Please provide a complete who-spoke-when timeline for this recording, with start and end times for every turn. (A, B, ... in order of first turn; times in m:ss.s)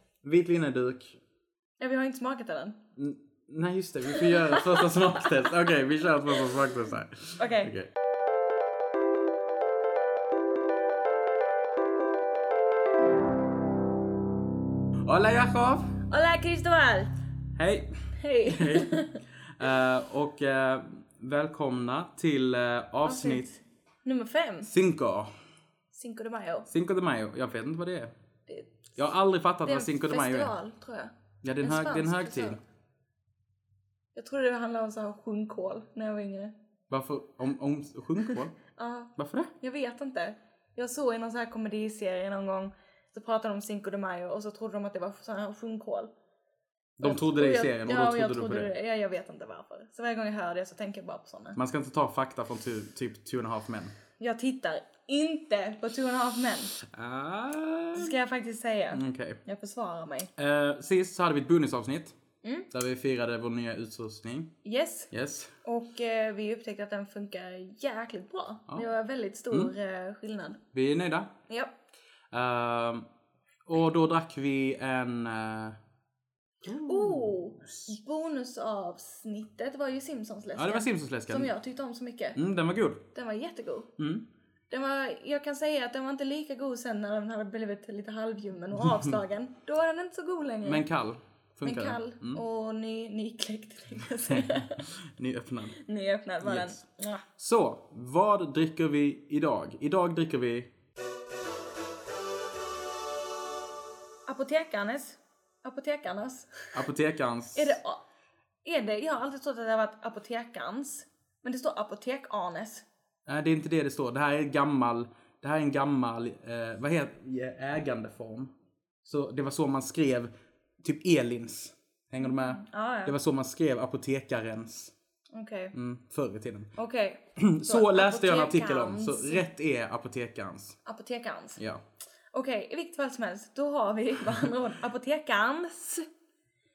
0:00.2-0:01.2 A
0:01.8-0:02.8 B
0:03.0-0:07.9 A
0:04.1-0:05.5 B
0:07.4-0:07.7 B
0:15.0-0:16.0 A
0:16.1-0:17.1 B
0:17.6-0:23.5 A
0:18.2-0:19.2 B
0:23.0-0:24.7 B
0:24.6-0:25.3 A
0:25.9-0:26.7 B
0:26.7-0:28.1 A
0:28.5-0:28.8 B
0:29.0-0:30.5 A
0:29.6-0:32.6 B
0:31.4-0:32.6 A
0:34.2-0:36.5 B
0:36.9-0:38.6 A
0:38.2-0:46.1 B
0:39.2-0:39.5 A
0:47.0-0:48.7 A
0:47.0-0:51.6 B
0:51.6-0:54.0 A
0:54.2-0:56.8 B
0:56.9-0:58.1 A
0:58.0-1:00.3 B
0:58.9-0:59.4 A
1:00.4-1:02.2 A
1:02.4-1:02.7 B
1:02.7-1:04.5 A
1:04.6-1:05.1 B
1:05.1-1:05.6 A
1:05.6-1:10.6 B
1:10.7-1:11.3 A
1:11.5-1:11.8 B
1:12.3-1:13.1 A
1:13.7-1:15.8 A
1:16.6-1:17.9 A
1:16.9-1:22.4 B
1:20.6-1:21.5 A
1:22.4-1:23.1 A
1:23.1-1:23.9 B
1:24.0-1:24.2 A
1:24.7-1:30.8 B
1:30.6-1:32.4 A
1:31.6-1:34.9 B
1:34.3-1:35.8 A
1:35.8-1:37.2 B
1:36.4-1:40.7 A
1:44.3-1:46.8 B
1:46.7-1:47.8 A
1:47.6-1:48.0 B
1:48.6-1:52.8 B
1:53.3-1:58.5 A
1:59.0-2:04.9 A
2:02.2-2:03.2 B
2:05.3-2:05.8 B
2:05.7-2:06.7 A
2:06.8-2:09.5 B
2:07.4-2:10.8 A
2:10.8-2:11.6 B
2:11.6-2:11.8 A
2:12.3-2:16.1 B